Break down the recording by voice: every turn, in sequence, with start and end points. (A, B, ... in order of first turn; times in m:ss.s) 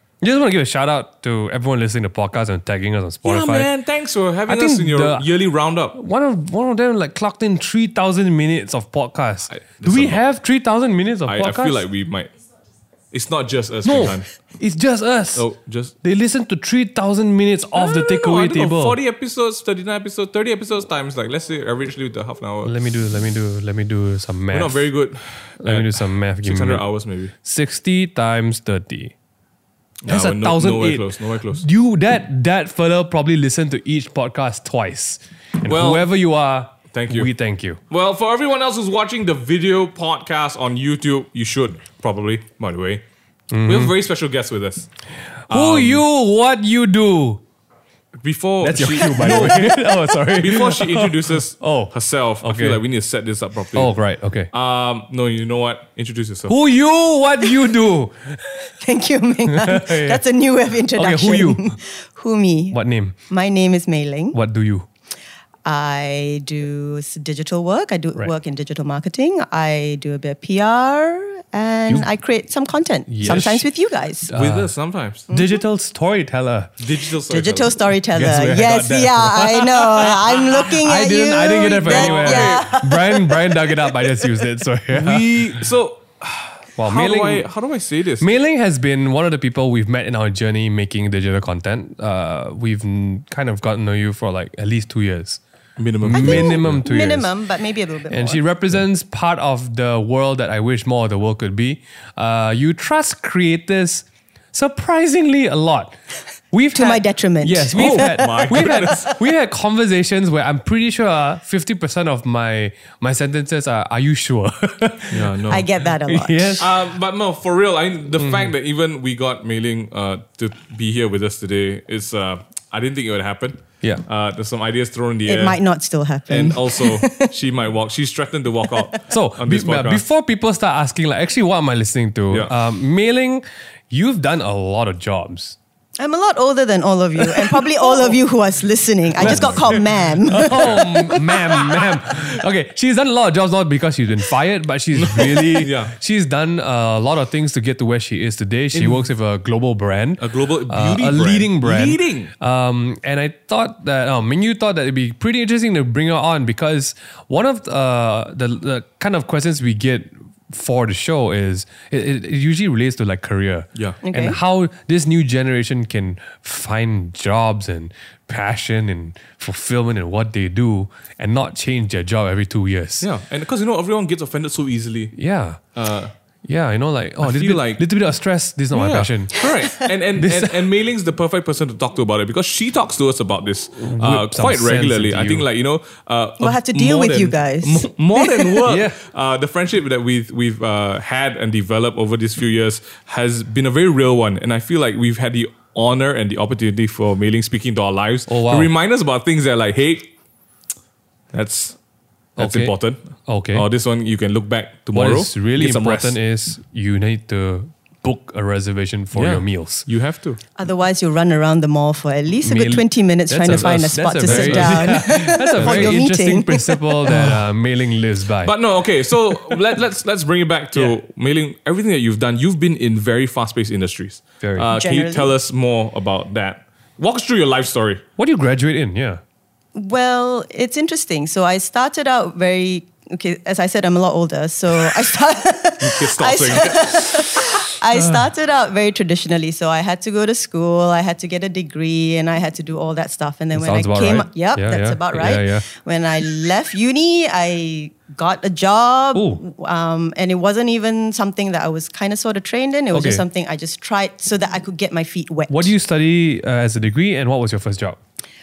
0:00.2-0:03.7 A
0:03.2-0:06.0 B
0:04.5-0:05.3 A
0:05.9-0:11.8 A
0:09.5-0:10.2 B
0:11.3-0:12.3 B
0:13.1-0:14.3 B
0:13.8-0:15.5 A
0:15.3-0:15.9 B
0:16.0-0:19.0 A
0:17.7-0:22.7 B
0:22.6-0:24.9 A
0:24.5-0:27.3 B
0:25.6-0:26.8 A
0:27.4-0:29.1 A
0:30.0-0:31.6 B
0:30.1-0:37.8 A
0:35.6-0:36.1 B
0:36.9-0:37.3 B
0:37.9-0:43.0 B
0:43.5-0:43.9 A
0:43.6-0:44.9 B
0:45.5-0:46.0 B
0:45.5-0:47.4 A
0:48.2-0:53.9 B
0:48.6-0:52.8 A
0:49.0-0:50.4 C
0:53.7-0:54.5 A
0:54.5-0:56.6 B
0:56.5-0:58.4 A
0:58.8-1:04.4 C
0:59.4-1:00.2 A
1:00.9-1:01.6 A
1:02.7-1:03.1 A
1:04.3-1:04.9 A
1:05.6-1:14.3 C
1:13.1-1:13.7 A
1:14.3-1:14.7 A
1:14.4-1:15.2 B
1:15.3-1:15.6 C
1:15.3-1:16.7 A
1:16.8-1:17.9 B
1:17.3-1:24.2 C
1:18.1-1:25.7 A
1:21.8-1:22.7 B
1:24.9-1:28.3 B
1:26.8-1:27.5 A
1:28.2-1:35.4 A
1:35.8-1:36.8 B
1:36.0-1:37.3 A
1:36.1-1:38.4 C
1:38.1-1:45.9 A
1:46.5-1:55.3 A
1:46.7-1:49.1 C
1:47.7-1:49.1 B
1:55.1-1:55.7 B
1:55.5-1:56.6 C
1:56.0-1:56.7 A
1:56.6-2:05.6 B
1:58.2-1:58.5 A
2:05.2-2:07.3 C
2:06.3-2:10.0 B
2:09.1-2:15.6 A
2:16.0-2:21.9 C
2:17.3-2:17.6 A
2:19.2-2:53.1 A
2:19.2-2:19.8 B
2:20.5-2:20.8 B
2:24.9-2:25.9 B
2:28.7-2:29.1 B
2:30.2-2:32.3 B
2:44.0-2:44.4 C
2:53.0-2:55.1 B
2:55.2-2:55.6 A
2:55.7-2:56.1 B
2:56.4-2:59.5 A
2:57.2-2:57.8 B
2:58.7-3:20.1 B
3:00.1-3:00.7 A
3:03.8-3:05.4 A
3:06.4-3:08.6 C
3:08.6-3:09.0 A
3:18.3-3:18.7 A
3:21.3-3:21.8 B
3:22.4-3:22.7 A
3:22.4-3:23.0 B
3:23.2-3:23.7 A
3:23.5-3:26.2 B
3:24.9-3:29.9 A
3:29.1-3:30.4 B
3:30.6-3:37.2 C
3:32.4-3:38.5 A
3:33.5-3:35.0 B
3:35.6-3:35.9 B
3:37.1-3:37.4 B
3:38.4-3:48.0 B
3:44.4-3:44.7 A
3:44.7-3:45.3 C
3:48.2-3:49.2 A
3:49.7-4:15.7 C
3:55.8-3:57.3 B
3:57.9-3:58.2 A
4:03.5-4:05.6 A
4:09.1-4:09.4 A
4:12.9-4:13.2 A
4:15.5-4:18.0 A